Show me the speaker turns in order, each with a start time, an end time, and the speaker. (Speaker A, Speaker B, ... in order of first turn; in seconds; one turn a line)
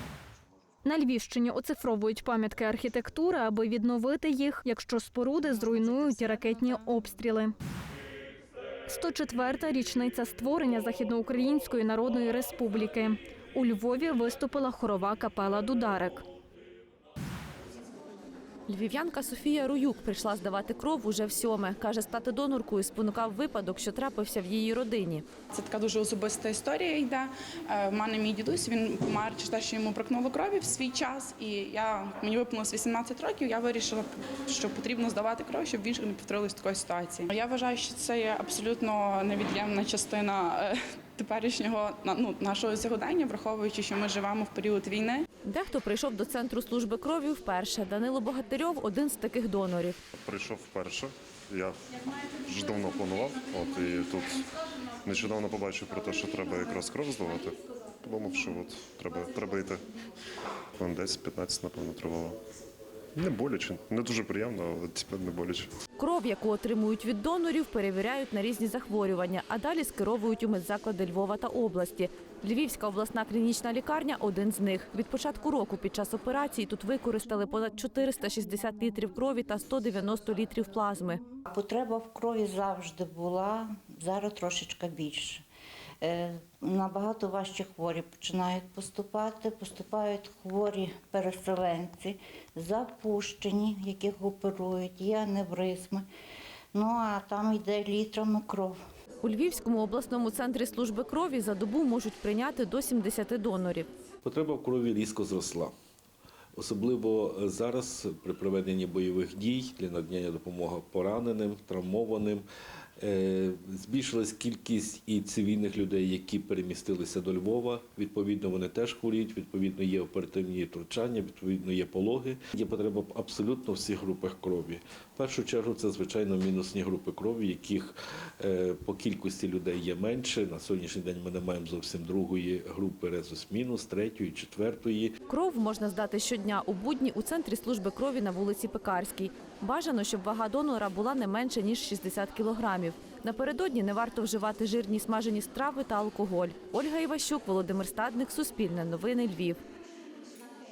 Speaker A: 0.8-7.5
Speaker A: 8.9-16.2
Speaker B: 18.7-25.2
Speaker C: 25.5-45.3
Speaker B: 45.5-50.0
Speaker D: 50.2-51.7
Speaker D: 52.4-54.5
Speaker D: 55.0-59.8
Speaker D: 60.8-62.4
Speaker D: 63.1-65.7
Speaker B: 66.0-81.2
Speaker E: 81.5-85.4
Speaker E: 86.0-96.0
Speaker E: 96.7-98.8
Speaker B: 99.2-103.9
Speaker F: 104.2-105.7
Speaker F: 106.5-112.4
Speaker F: 113.0-135.1
Speaker B: 135.3-149.6